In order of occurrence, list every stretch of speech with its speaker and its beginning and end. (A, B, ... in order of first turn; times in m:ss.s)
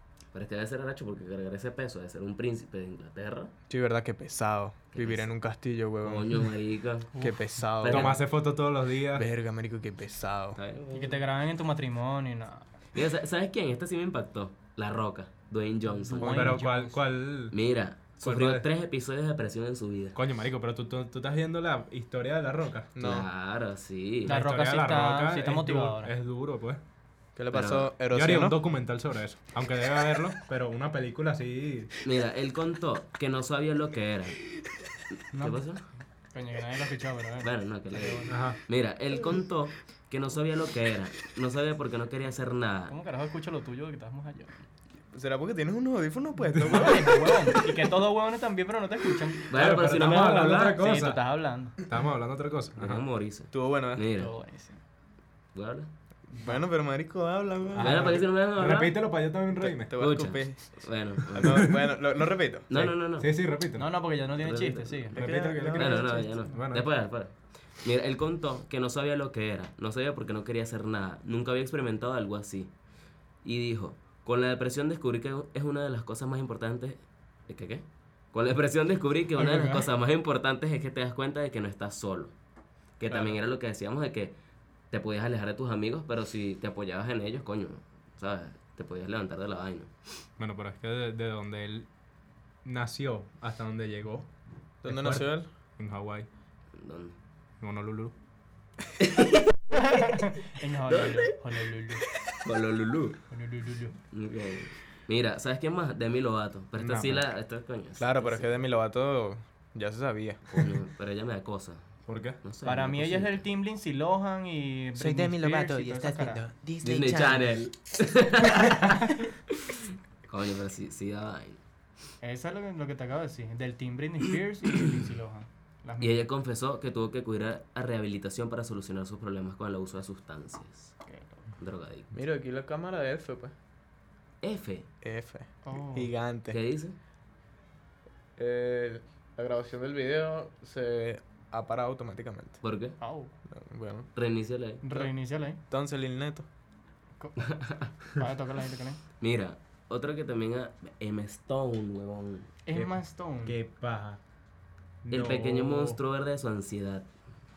0:00.3-0:03.5 A
0:03.7-0:06.4 B
0:04.9-0:05.3 A
0:06.0-0:07.2 A
0:07.2-0:08.2 B
0:07.8-0:08.2 A
0:07.8-0:09.2 C
0:09.1-0:10.6 B
0:10.6-0:11.2 A
0:10.9-0:12.7 D
0:12.9-0:16.6 A
0:16.1-0:17.0 D
0:16.2-0:17.6 C
0:17.5-0:20.2 A
0:18.2-0:18.6 C
0:20.1-0:22.9 C
0:23.0-0:23.3 B
0:23.0-0:24.3 A
0:24.2-0:26.8 C
0:24.2-0:26.1 D
0:27.4-0:28.6 B
0:27.5-0:27.9 A
0:28.1-0:31.9 C
0:32.0-0:34.4 A
0:35.3-0:35.7 D
0:35.3-0:35.8 A
0:36.3-0:38.4 D
0:37.4-0:42.9 A
0:38.3-0:38.6 C
0:42.9-0:44.5 D
0:45.1-0:47.6 B
0:46.5-0:46.8 C
0:46.6-0:49.5 D
0:49.5-0:50.8 A
0:49.5-0:51.2 C
0:50.5-0:51.7 D
0:51.8-0:53.0 C
0:52.8-0:54.3 A
0:53.5-0:54.0 B
0:54.2-0:54.8 D
0:55.5-0:55.9 A
0:56.3-0:58.2 B
0:57.8-0:59.1 A
0:57.8-0:59.9 C
0:59.6-1:02.7 B
1:00.0-1:01.7 A
1:01.4-1:01.8 C
1:02.7-1:03.3 A
1:02.7-1:03.9 C
1:03.8-1:05.2 D
1:04.4-1:12.7 A
1:05.1-1:06.3 B
1:05.1-1:06.9 C
1:13.4-1:22.3 A
1:19.4-1:19.8 C
1:23.0-1:24.3 A
1:24.9-1:29.9 A
1:30.4-1:31.9 C
1:32.6-1:34.3 C
1:34.8-1:35.5 B
1:34.8-1:36.3 C
1:36.8-1:37.1 A
1:37.6-1:38.1 C
1:39.0-1:39.4 A
1:39.7-1:42.0 D
1:40.9-1:41.3 A
1:42.3-1:43.2 A
1:43.3-1:43.9 D
1:44.1-1:48.4 A
1:46.8-1:47.2 C
1:48.0-1:50.4 B
1:50.5-1:53.4 A
1:52.0-1:52.4 C
1:52.6-1:56.4 D
1:55.0-1:57.5 B
1:56.8-2:01.6 A
2:02.2-2:06.2 D
2:06.0-2:11.0 A
2:11.1-2:11.4 D
2:11.6-2:12.1 A
2:12.1-2:13.5 B
2:14.4-2:14.9 A
2:15.0-2:16.6 B
2:15.6-2:16.1 D
2:16.5-2:16.9 A
2:18.4-2:22.6 B
2:22.6-2:23.0 A
2:23.0-2:23.3 D
2:23.5-2:24.1 B
2:24.1-2:25.1 A
2:24.8-2:25.6 D
2:25.7-2:26.5 B
2:27.2-2:29.0 D
2:27.4-2:27.9 A
2:29.2-2:32.5 A
2:32.6-2:33.6 D
2:32.7-2:34.2 C
2:35.0-2:36.0 C
2:35.1-2:37.1 A